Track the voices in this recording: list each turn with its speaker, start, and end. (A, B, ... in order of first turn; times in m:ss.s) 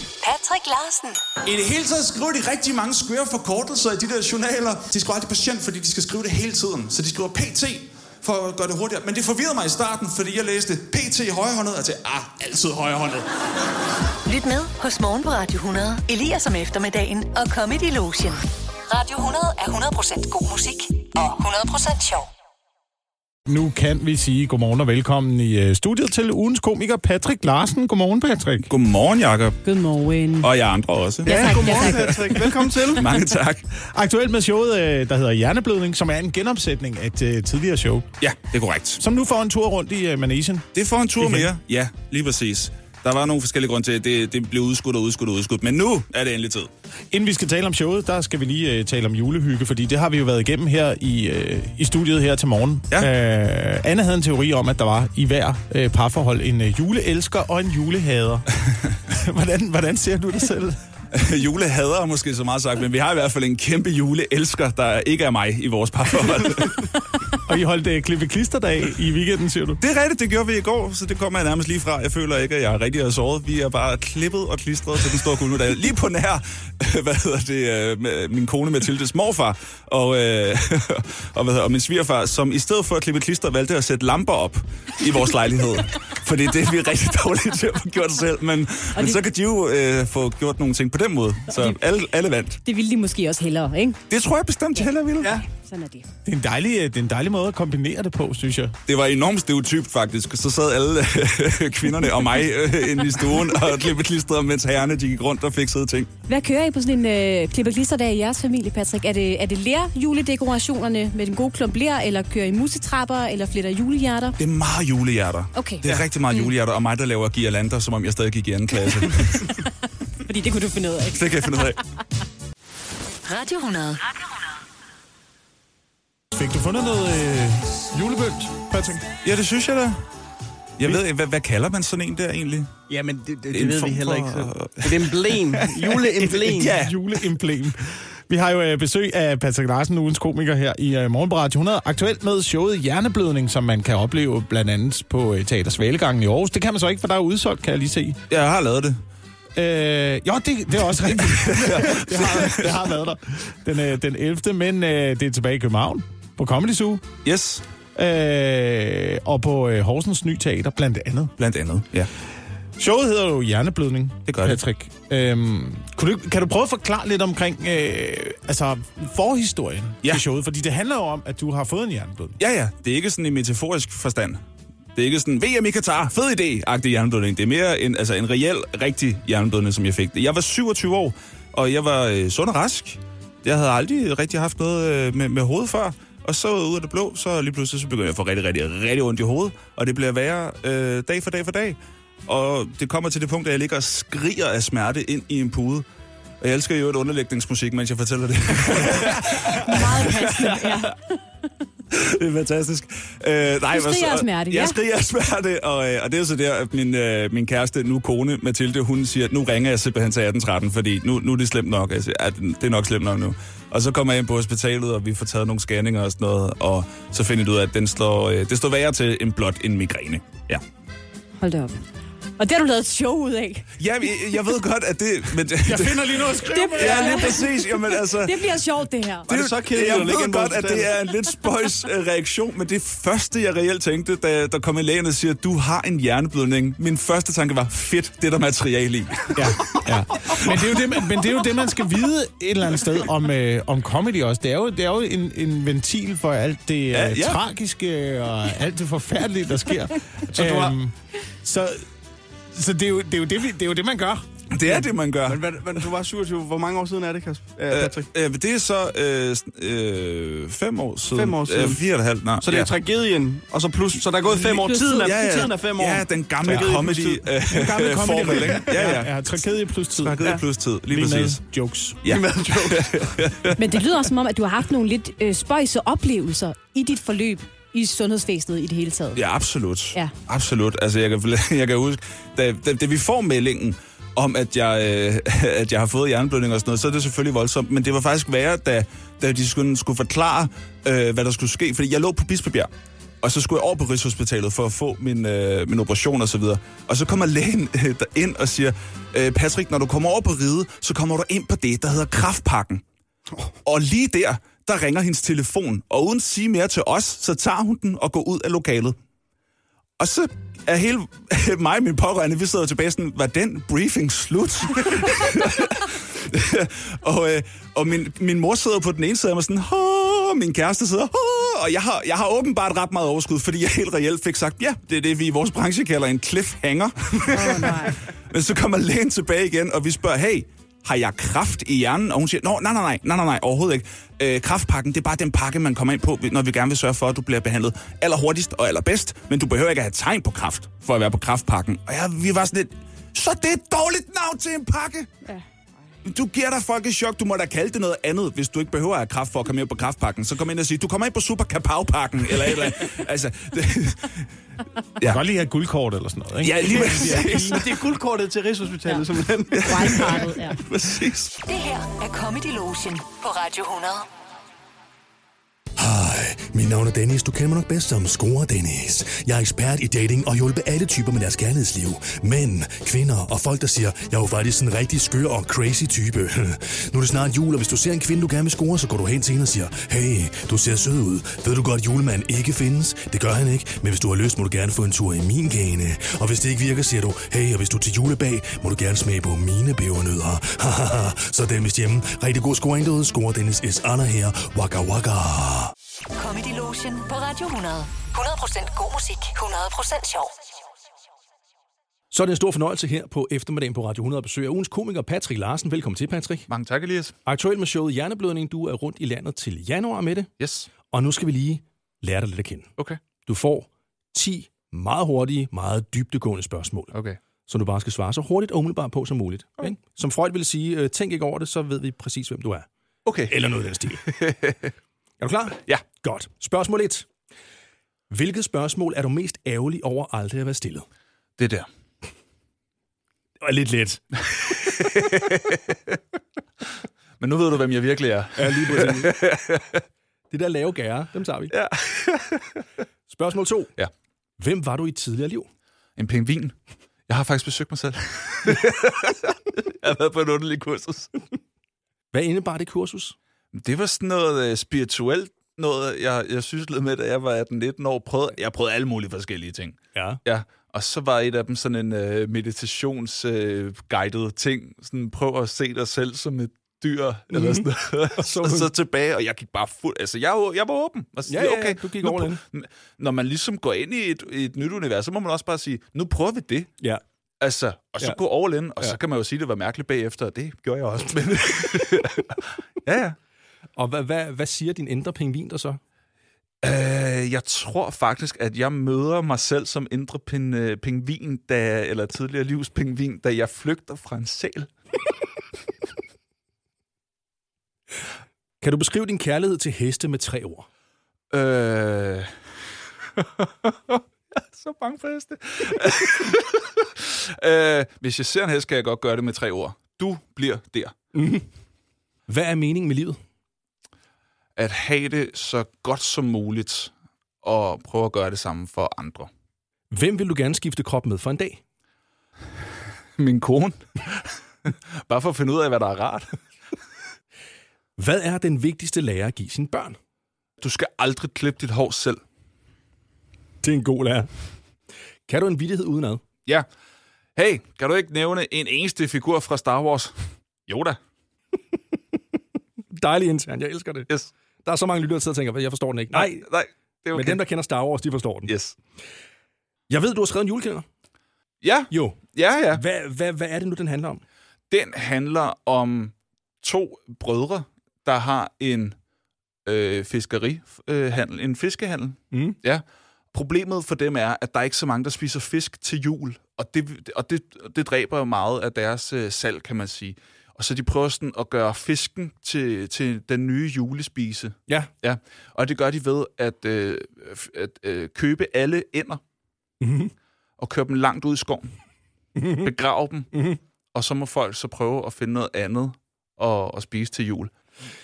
0:00.2-0:01.2 A
0:01.4-0:13.3 B
0:14.2-0:22.3 A
0:23.5-0:28.7 C
0:28.7-0:29.6 B
0:29.6-0:30.5 D
0:30.4-0:33.7 B
0:31.2-0:32.3 D
0:31.2-0:33.1 E
0:33.8-0:38.1 C
0:38.2-0:39.0 B
0:39.0-0:40.7 C
0:40.7-0:46.7 B
0:41.2-0:41.5 C
0:47.1-0:58.5 C
0:59.0-1:00.8 C
1:01.1-1:07.0 B
1:07.4-1:09.8 C
1:09.8-1:32.6 B
1:28.9-1:29.2 D
1:31.5-1:31.8 D
1:32.6-1:34.0 D
1:34.1-1:35.4 B
1:35.2-1:35.4 E
1:35.4-1:36.1 D
1:36.2-1:38.7 C
1:38.8-1:46.1 B
1:46.3-1:54.3 D
1:54.4-1:59.6 B
1:55.5-1:56.5 D
1:58.9-1:59.7 D
2:00.2-2:01.7 D
2:01.1-2:01.8 B
2:03.2-2:04.1 A
2:06.3-2:09.0 C
2:09.2-2:10.0 B
2:10.8-2:12.7 B
2:12.9-2:16.8 E
2:13.5-2:17.0 B
2:16.5-2:28.2 C
2:28.3-2:29.0 B
2:29.5-2:37.0 C
2:31.2-2:32.8 B
2:37.2-2:37.6 B
2:37.9-2:41.3 C
2:41.4-2:42.1 B
2:42.8-2:52.4 C
2:44.3-2:44.6 B
2:52.4-2:54.4 B
2:55.0-3:15.8 B
3:16.4-3:20.8 B
3:18.8-3:21.0 D
3:21.9-3:40.6 B
3:23.7-3:24.8 D
3:41.4-3:41.8 D
3:42.4-3:43.7 D
3:43.8-3:48.6 B
3:45.6-3:47.4 C
3:46.5-3:49.3 D
3:49.3-3:50.9 E
3:49.3-4:01.2 B
3:59.3-4:11.9 C
4:06.9-4:07.4 B
4:10.3-4:10.8 B
4:12.5-4:14.2 C
4:14.5-4:15.4 B
4:14.7-4:18.1 E
4:17.7-4:22.7 B
4:21.1-4:21.8 E
4:22.4-4:27.6 E
4:24.4-4:25.5 D
4:25.0-4:29.4 B
4:27.5-4:32.0 C
4:28.5-4:29.0 E
4:30.0-4:31.4 B
4:32.0-4:33.6 B
4:32.0-4:33.2 E
4:33.6-4:39.2 D
4:39.1-4:52.7 B
4:53.2-5:02.8 B
5:03.6-5:09.0 B
5:10.0-5:45.1 B
5:27.3-5:28.0 D
5:46.0-5:54.3 B
5:55.0-5:57.6 C
5:56.4-5:57.6 B
5:56.7-6:00.3 E
5:59.5-6:01.3 B
5:59.7-6:00.6 D
6:01.4-6:04.1 A
6:05.8-6:35.7 F
6:36.2-6:40.3 A
6:42.1-6:46.5 G
6:46.5-6:47.2 B
6:47.2-6:50.3 G
6:50.4-6:50.7 B
6:50.9-6:52.7 G
6:53.2-6:56.9 G
6:56.9-6:57.2 B
6:57.5-7:02.7 G
7:03.0-7:03.3 B
7:03.3-7:04.0 G
7:04.0-7:04.7 B
7:05.2-7:07.1 G
7:08.1-7:10.8 G
7:11.4-7:11.7 B
7:13.4-7:15.0 G
7:15.1-7:15.6 B
7:17.2-7:19.8 B
7:18.4-7:19.1 G
7:20.3-7:21.5 G
7:21.5-7:22.6 B
7:23.1-7:23.7 G
7:24.4-7:25.5 G
7:26.0-7:26.6 B
7:27.1-7:31.1 B
7:32.1-7:33.2 G
7:33.5-7:56.7 B
7:39.9-7:40.2 G
7:47.3-7:48.7 G
7:51.3-7:52.4 G
7:57.4-8:03.2 B
8:03.8-8:05.8 G
8:06.6-8:14.7 B
8:18.6-8:20.7 G
8:21.3-8:22.3 B
8:23.2-8:31.0 B
8:31.1-8:31.4 G
8:32.3-8:33.2 G
8:34.6-8:39.3 B
8:39.9-8:41.6 G
8:43.2-8:46.4 B
8:48.0-8:50.0 G
8:50.6-8:52.2 B
8:53.6-8:54.4 G
8:55.3-8:56.2 G
8:57.4-9:01.0 B
9:02.9-9:04.1 G
9:04.6-9:06.4 G
9:06.1-9:07.4 B
9:07.1-9:08.5 G
9:08.5-9:08.8 B
9:09.9-9:10.8 G
9:11.6-9:12.8 B
9:11.9-9:12.2 G
9:12.7-9:14.2 G
9:14.7-9:18.9 B
9:19.6-9:39.2 B
9:22.3-9:22.6 G
9:39.8-9:40.1 G
9:40.6-9:41.7 B
9:42.4-9:42.6 G
9:42.5-9:47.5 B